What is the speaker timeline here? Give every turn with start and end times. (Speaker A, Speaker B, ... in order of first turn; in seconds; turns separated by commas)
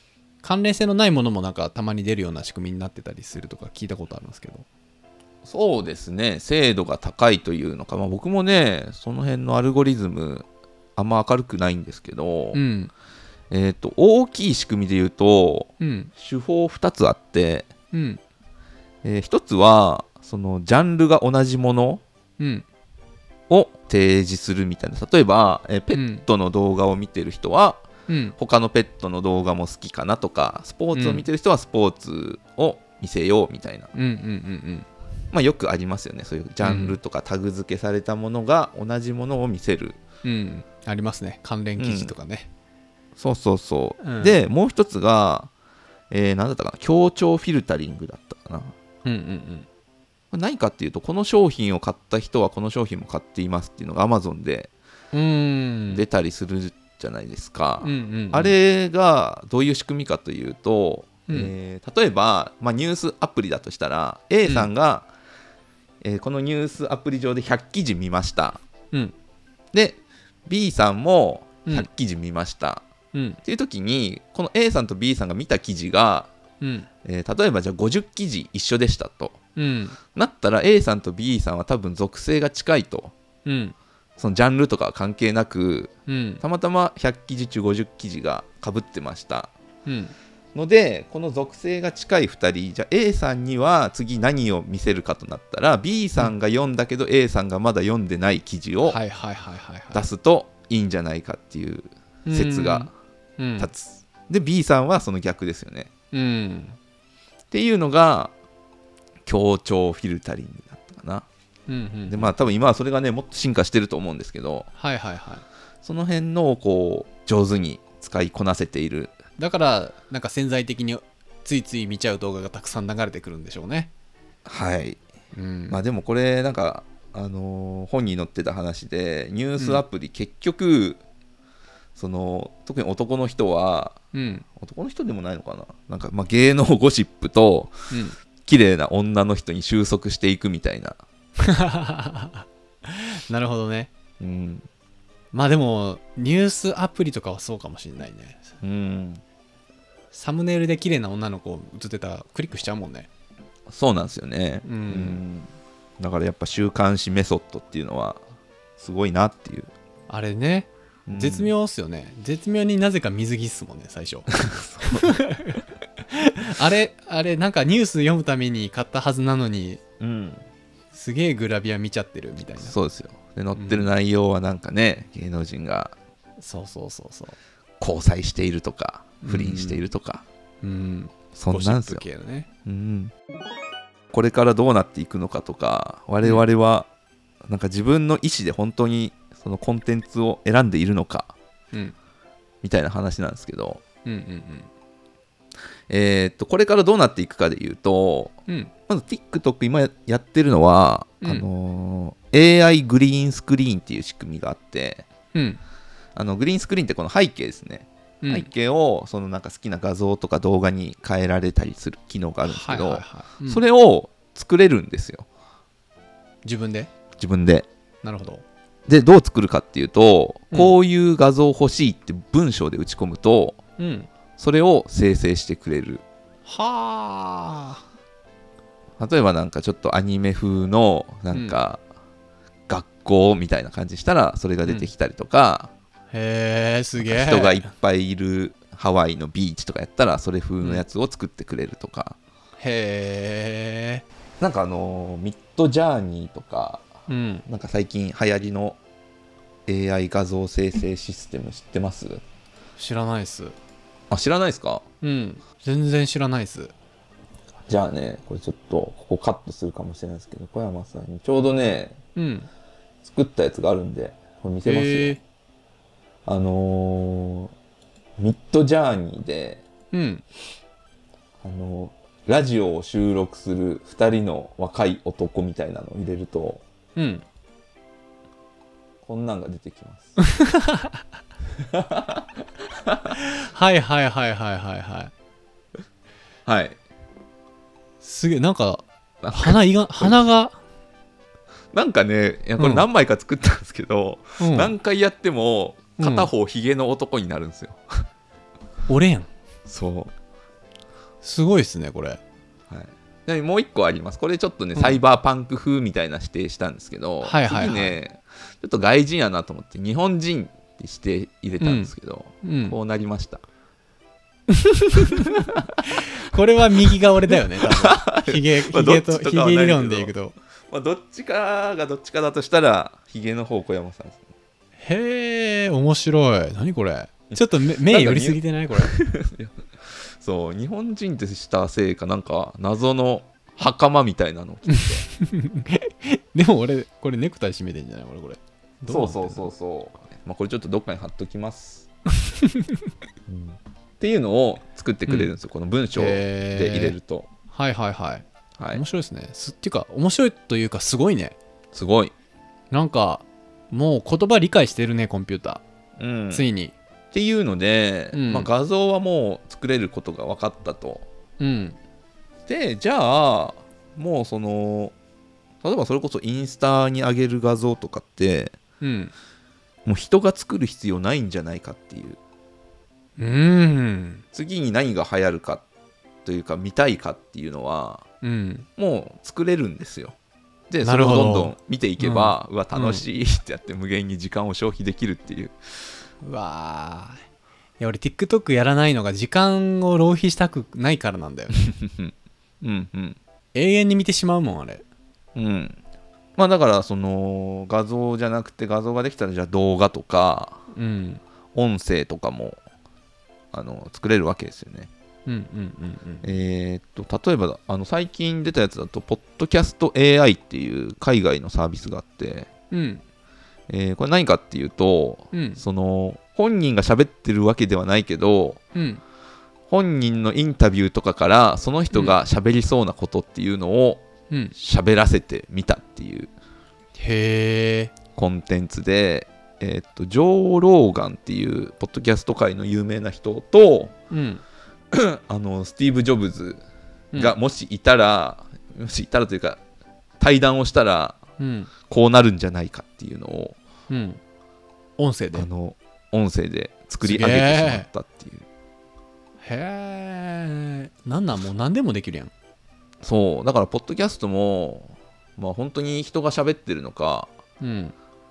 Speaker A: 0.4-4.7, Speaker B: 5.5-12.6, Speaker A: 12.5-12.9, Speaker B: 13.5-17.7, Speaker A: 15.8-16.1, Speaker A: 17.9-18.2, Speaker B: 19.0-22.0, Speaker A: 22.4-22.6, Speaker B: 23.5-27.9, Speaker A: 25.9-26.2, Speaker A: 28.1-28.4, Speaker B: 28.4-33.9, Speaker A: 30.9-31.3, Speaker A: 33.9-34.9, Speaker B: 35.3-40.0, Speaker A: 36.6-37.0, Speaker A: 40.2-42.5, Speaker B: 41.8-42.1, Speaker B: 43.2-45.5, Speaker A: 44.0-44.4, Speaker B: 46.1-48.7, Speaker A: 49.0-49.7, Speaker B: 50.3-54.7, Speaker A: 55.1-56.0, Speaker B: 55.9-65.1, Speaker A: 57.8-58.5, Speaker B: 66.0-68.6, Speaker B: 69.7-72.8, Speaker A: 73.1-73.4, Speaker B: 73.4-76.3, Speaker A: 76.6-76.9, Speaker B: 77.0-79.4, Speaker A: 79.6-80.0, Speaker B: 80.1-83.1, Speaker A: 83.5-83.8, Speaker B: 84.2-89.5, Speaker A: 86.1-86.4, Speaker A: 89.9-90.2, Speaker B: 90.5-99.0, Speaker A: 98.9-100.1, Speaker B: 99.9-102.9, Speaker A: 102.3-103.7, Speaker B: 103.6-105.9, Speaker A: 106.1-106.8, Speaker B: 107.5-108.3, Speaker B: 109.3-111.3, Speaker A: 111.7-112.3, Speaker B: 112.1-114.7, Speaker A: 114.8-115.5, Speaker B: 115.8-119.2, Speaker A: 119.4-123.9, Speaker B: 124.5-125.0, Speaker A: 125.3-125.8, Speaker B: 125.7-131.0, Speaker B: 132.0-134.0, Speaker A: 134.1-134.5, Speaker B: 134.6-137.7, Speaker A: 137.9-138.2, Speaker B: 138.4-141.0, Speaker A: 141.4-143.9, Speaker B: 144.2-144.7, Speaker A: 145.3-148.4, Speaker B: 148.6-149.2, Speaker A: 150.1-153.1, Speaker B: 153.7-158.2, Speaker A: 154.7-155.2, Speaker B: 158.8-159.7, Speaker A: 160.1-164.3, Speaker B: 161.1-161.5, Speaker B: 164.3-165.2, Speaker A: 164.8-169.8, Speaker B: 170.0-170.4, Speaker A: 170.9-172.8, Speaker B: 172.6-175.9, Speaker A: 173.6-173.9, Speaker A: 176.4-177.4, Speaker B: 177.8-180.2, Speaker A: 179.2-179.8, Speaker A: 180.6-182.5, Speaker B: 181.4-182.0, Speaker B: 182.7-183.1, Speaker B: 184.1-186.9, Speaker B: 187.5-191.3, Speaker B: 192.6-193.8, Speaker A: 194.1-194.7, Speaker B: 195.9-198.3, Speaker A: 198.5-198.7, Speaker B: 198.9-205.1, Speaker A: 205.3-205.6, Speaker B: 206.2-215.3, Speaker A: 208.2-208.5, Speaker A: 212.4-213.6, Speaker A: 216.4-216.9, Speaker B: 217.2-217.7, Speaker A: 218.0-218.4, Speaker B: 218.9-223.6, Speaker A: 223.8-224.1, Speaker B: 224.4-226.0, Speaker A: 226.5-227.8, Speaker B: 229.0-231.8, Speaker B: 232.7-235.7, Speaker A: 234.7-234.9, Speaker A: 236.1-237.7, Speaker B: 237.0-242.2, Speaker A: 242.6-244.0, Speaker B: 244.4-246.9, Speaker A: 247.1-247.4, Speaker B: 247.5-248.8, Speaker B: 249.7-252.2, Speaker A: 252.8-253.6, Speaker B: 254.1-254.8, Speaker A: 255.0-256.7, Speaker B: 257.7-262.0, Speaker A: 262.1-262.5, Speaker B: 263.0-265.2, Speaker A: 264.6-265.2, Speaker B: 266.3-267.5, Speaker B: 268.2-269.6, Speaker A: 269.9-270.2, Speaker B: 271.4-276.6, Speaker A: 277.0-277.2, Speaker B: 279.1-280.2, Speaker A: 280.2-281.0, Speaker B: 281.6-282.3, Speaker B: 282.9-283.1, Speaker A: 283.1-285.1, Speaker B: 286.5-286.8, Speaker A: 288.0-290.6, Speaker B: 289.2-290.2, Speaker B: 291.7-298.0, Speaker A: 292.6-292.9, Speaker A: 294.4-294.8, Speaker A: 296.0-296.3, Speaker A: 298.9-299.3, Speaker B: 299.7-300.1, Speaker A: 301.2-302.2, Speaker B: 302.7-313.4, Speaker A: 307.2-308.0, Speaker A: 311.6-312.8, Speaker A: 314.5-315.3, Speaker B: 315.1-316.1, Speaker A: 316.0-320.4, Speaker B: 316.9-320.1, Speaker B: 320.7-324.2, Speaker A: 324.8-328.9, Speaker B: 327.3-329.6, Speaker B: 330.2-335.1, Speaker A: 334.7-339.5, Speaker B: 338.9-341.9, Speaker A: 342.3-342.8, Speaker B: 343.3-347.3, Speaker A: 346.0-347.0, Speaker A: 347.5-351.4, Speaker B: 348.6-348.8, Speaker B: 351.7-352.1, Speaker A: 352.7-355.6, Speaker B: 356.0-356.4, Speaker A: 356.3-356.8, Speaker B: 357.1-361.1, Speaker A: 358.1-358.5, Speaker A: 361.4-361.8, Speaker B: 362.5-364.9, Speaker B: 365.6-368.6, Speaker A: 368.8-369.1, Speaker B: 369.9-372.2, Speaker A: 373.2-374.2, Speaker B: 374.3-375.6, Speaker B: 376.2-378.1, Speaker A: 378.2-378.7, Speaker B: 378.8-380.2, Speaker B: 380.7-385.6, Speaker A: 380.8-383.0, Speaker A: 386.2-387.2, Speaker A: 387.8-391.6, Speaker B: 391.6-393.2, Speaker A: 393.5-394.8, Speaker B: 395.4-395.8, Speaker B: 396.4-400.6, Speaker A: 400.7-401.2, Speaker B: 401.6-402.6, Speaker B: 403.5-404.9, Speaker A: 405.3-406.3, Speaker B: 406.2-412.5, Speaker A: 412.7-413.0, Speaker B: 413.7-418.6, Speaker A: 415.3-415.6, Speaker A: 418.7-419.0, Speaker B: 419.7-424.0, Speaker B: 424.5-426.3, Speaker A: 426.9-427.9, Speaker B: 428.1-433.9, Speaker A: 434.1-434.4, Speaker B: 434.9-436.6, Speaker B: 437.1-439.6, Speaker B: 440.2-441.2, Speaker A: 441.4-441.7, Speaker B: 441.9-443.6, Speaker A: 443.9-444.2, Speaker A: 445.0-445.5, Speaker B: 445.3-448.4, Speaker A: 447.0-447.9, Speaker A: 449.4-452.3, Speaker B: 453.0-457.3, Speaker A: 457.6-457.9